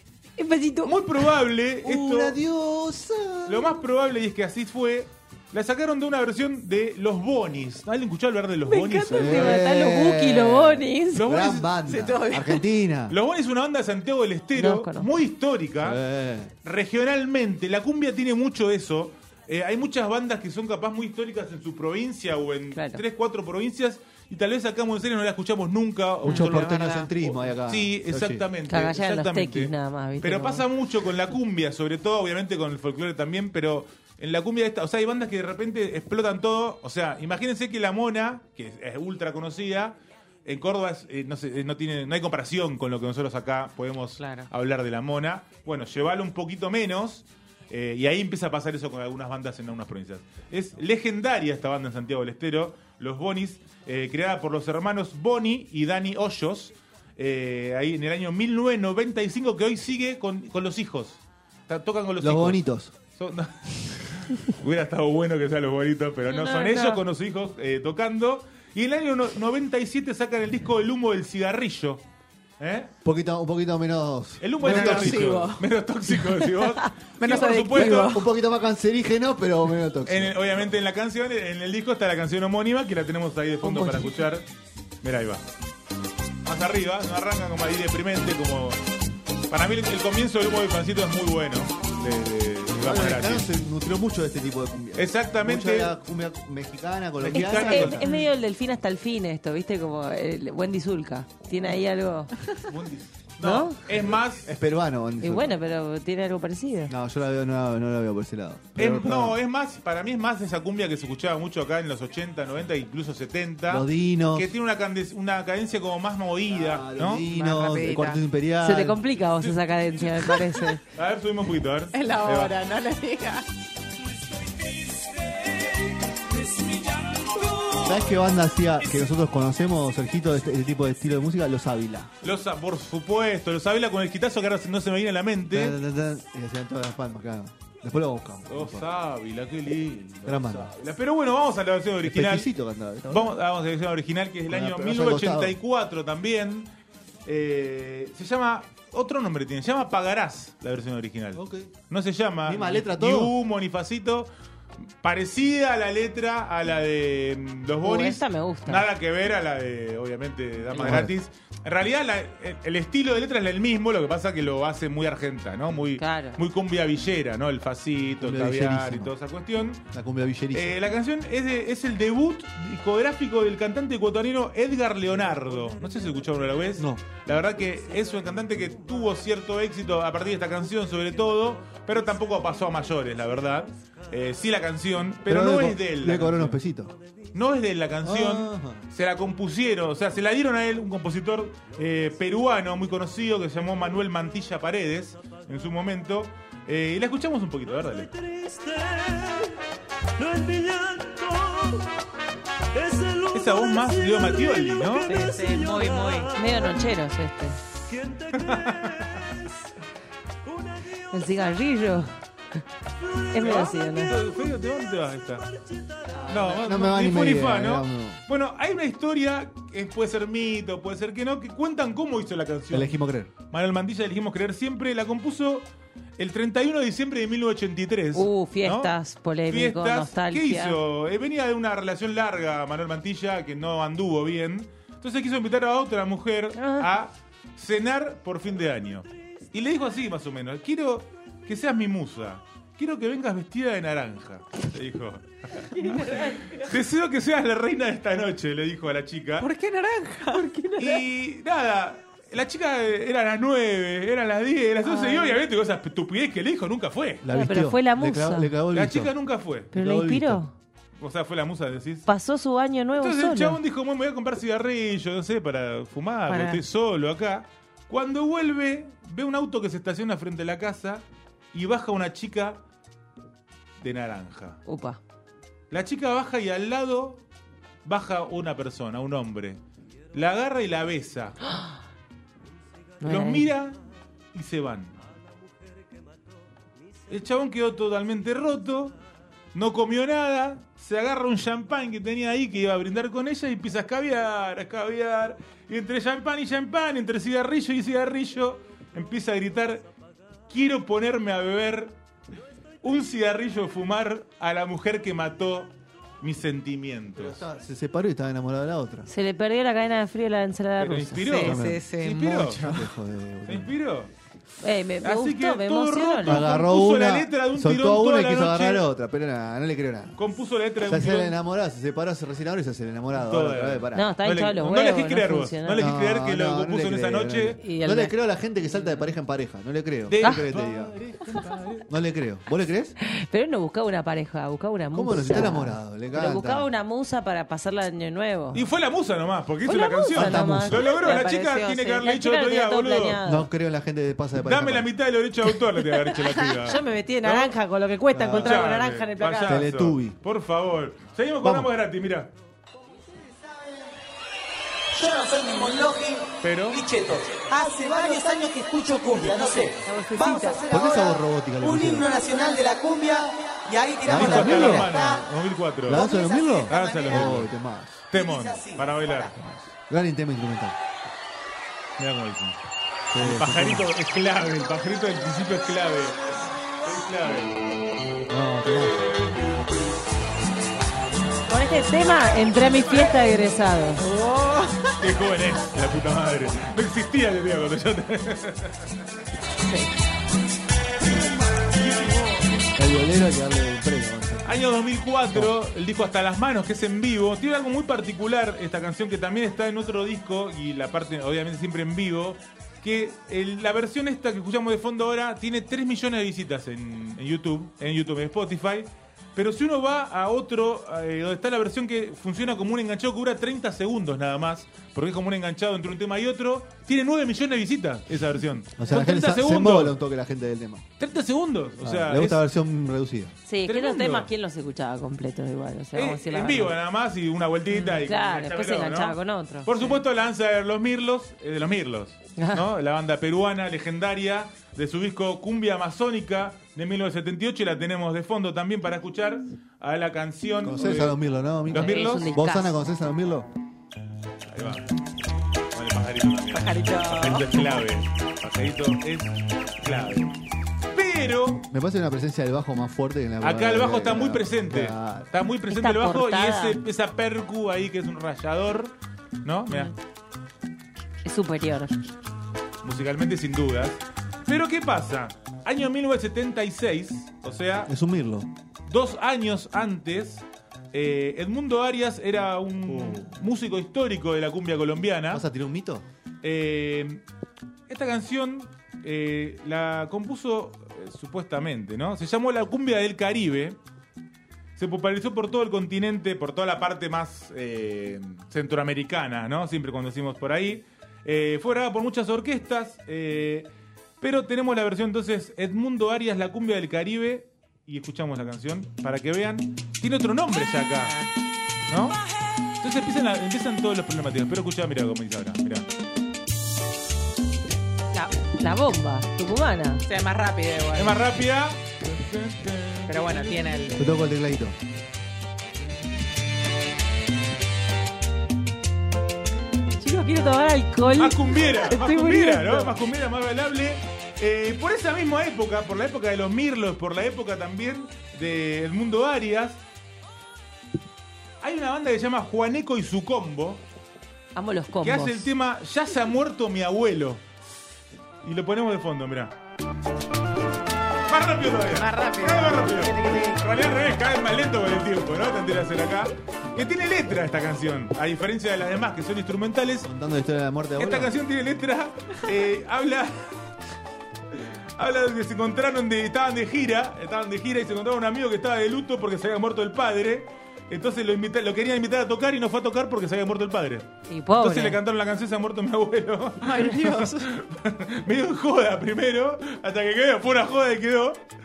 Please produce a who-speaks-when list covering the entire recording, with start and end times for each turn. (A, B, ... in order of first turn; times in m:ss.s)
0:00.4-0:01.0 A
0:00.8-0:02.4 B
0:01.8-0:03.8 C
0:03.5-0:09.6 B
0:08.7-0:11.3 A
0:09.1-0:13.2 C
0:11.1-0:12.0 B
0:11.9-0:12.6 D
0:13.1-0:16.0 B
0:14.6-0:15.1 A
0:15.8-0:16.5 C
0:16.6-1:02.6 B
0:22.7-0:23.0 A
0:26.2-0:28.5 C
0:26.3-0:26.9 D
0:28.7-0:30.7 A
0:44.2-0:44.5 D
1:02.2-1:02.9 C
1:03.2-1:12.0 B
1:06.3-1:07.0 A
1:12.6-1:12.9 B
1:13.0-1:15.5 C
1:14.4-1:18.2 B
1:14.6-1:15.6 D
1:17.2-1:18.3 D
1:17.7-1:20.4 C
1:20.0-1:24.5 B
1:25.0-1:25.4 B
1:26.4-1:28.8 B
1:29.5-1:33.5 B
1:32.8-1:38.1 C
1:35.0-1:35.9 B
1:37.2-1:38.1 B
1:37.3-1:42.3 A
1:42.7-1:44.5 B
1:43.4-1:43.9 A
1:44.4-1:45.6 C
1:45.2-1:46.9 A
1:46.9-1:49.4 C
1:48.8-1:57.2 B
1:53.7-1:54.5 C
1:56.5-1:59.0 C
1:57.2-1:58.2 D
1:58.6-2:00.8 A
2:00.9-2:02.6 B
2:01.9-2:03.4 D
2:04.5-2:07.9 E
2:07.8-2:12.1 C
2:12.2-2:15.8 B
2:15.5-2:18.8 C
2:18.5-2:22.5 B
2:20.3-2:20.7 C
2:22.0-2:23.4 C
2:23.1-2:26.7 B
2:24.5-2:25.6 C
2:27.3-2:34.3 B
2:31.4-2:31.7 C
2:32.5-2:33.3 C
2:35.0-2:49.8 B
2:37.8-2:38.9 A
2:40.8-2:41.1 C
2:46.0-2:46.4 A
2:48.2-2:49.1 C
2:49.9-2:50.8 C
2:50.5-3:06.6 B
2:56.8-2:57.1 C
3:05.3-3:07.0 C
3:07.3-3:18.1 B
3:08.0-3:08.8 C
3:18.1-3:19.5 E
3:20.2-3:21.8 E
3:22.8-3:26.4 E
3:23.3-3:25.1 B
3:25.1-3:26.3 D
3:26.3-3:27.6 A
3:27.9-3:29.4 E
3:28.4-3:29.2 B
3:30.5-3:30.9 E
3:31.1-3:32.1 A
3:33.3-3:34.2 A
3:33.4-3:35.5 B
3:35.6-3:36.2 E
3:36.3-3:43.0 B
3:36.4-3:38.2 C
3:42.7-3:43.3 C
3:43.5-3:48.9 B
3:48.1-3:50.8 A
3:49.5-4:09.5 B
3:56.6-3:56.9 A
4:05.7-4:06.7 A
4:05.8-4:06.5 D
4:09.4-4:11.0 D
4:10.8-4:17.2 B
4:14.8-4:15.4 A
4:17.2-4:19.1 C
4:17.3-4:18.5 A
4:18.7-4:19.7 B
4:19.7-4:20.4 C
4:19.7-4:20.5 A
4:21.0-4:22.1 B
4:22.1-4:23.6 A
4:23.0-4:32.6 B
4:26.3-4:26.6 A
4:33.8-4:34.6 B
4:34.6-4:35.0 A
4:35.7-4:37.2 B
4:37.8-4:39.6 B
4:40.1-4:41.5 B
4:43.0-4:43.5 A
4:43.0-4:43.8 B
4:44.3-4:44.9 B
4:47.1-4:49.0 B
4:49.5-4:59.9 B
5:00.5-5:02.0 B
5:02.8-5:07.4 B
5:07.2-5:09.1 C
5:09.1-5:11.5 A
5:10.8-5:12.7 B
5:11.2-5:12.9 D
5:11.3-5:11.8 C
5:12.6-5:13.7 C
5:13.5-5:14.1 B
5:14.6-5:16.4 A
5:15.0-5:18.9 B
5:16.2-5:20.2 C
5:20.2-5:21.4 B
5:20.8-5:24.1 C
5:23.1-5:27.6 B
5:24.0-5:25.9 A
5:25.8-5:31.0 C
5:27.6-5:28.2 A
5:30.1-5:31.9 B
5:31.9-5:33.0 C
5:33.0-5:38.6 A
5:34.9-5:36.7 C
5:38.5-5:43.2 B
5:39.6-5:43.5 A
5:40.1-5:40.9 C
5:43.2-5:44.9 C
5:44.4-5:47.5 B
5:46.1-5:49.6 A
5:48.1-5:48.7 C
5:48.4-5:52.3 B
5:49.5-5:50.2 C
5:51.4-5:51.7 C
5:54.9-6:05.2 E
5:56.4-5:56.8 B
5:59.8-6:00.7 A
6:00.7-6:02.1 C
6:04.0-6:05.0 C
6:04.1-6:06.0 B
6:05.9-6:08.0 C
6:05.9-6:07.3 E
6:06.7-6:07.5 B
6:08.1-6:09.4 B
6:08.2-6:09.3 E
6:09.4-6:10.8 C
6:12.0-6:12.6 B
6:13.1-6:13.9 C
6:13.1-6:17.8 B
6:18.3-6:19.1 C
6:21.5-6:24.0 A
6:24.0-6:24.9 D
6:25.0-6:28.8 B
6:31.7-6:32.4 B
6:32.8-6:34.5 C
6:34.4-7:00.0 B
6:58.8-7:00.9 C
7:01.0-7:02.4 B
7:01.8-7:03.3 C
7:03.5-7:06.7 A
7:03.7-7:04.3 B
7:05.9-7:21.2 B
7:07.7-7:10.0 A
7:12.4-7:12.7 A
7:20.6-7:23.5 C
7:21.7-7:22.3 B
7:21.7-7:22.8 A
7:24.5-7:24.8 B
7:25.7-7:30.4 B
7:26.5-7:27.7 D
7:30.9-7:31.6 B
7:31.7-7:35.3 C
7:33.4-7:38.9 B
7:35.7-7:36.8 A
7:39.4-7:39.9 B
7:41.2-7:42.0 A
7:42.8-7:47.9 B
7:47.9-7:48.5 C
7:48.9-7:55.4 B
7:52.9-7:53.3 C
7:55.3-7:56.0 C
7:56.4-7:57.2 B
7:57.9-8:03.8 B
8:04.8-8:21.2 B
8:21.9-8:22.2 B
8:22.8-8:25.9 B
8:28.1-8:30.0 A
8:30.0-8:31.2 D
8:31.0-8:34.1 B
8:33.1-8:34.0 D
8:34.0-8:34.8 C
8:40.0-8:43.0 A
8:41.2-8:49.8 B
8:51.6-8:53.8 B
8:54.6-8:55.5 A
8:55.0-8:57.4 B
8:58.4-8:59.5 B
9:01.3-9:10.1 B
9:01.9-9:03.6 D
9:10.0-9:11.3 C
9:11.0-9:13.6 B
9:15.0-9:24.1 B
9:24.3-9:25.0 A
9:24.6-9:31.4 B
9:26.6-9:27.5 D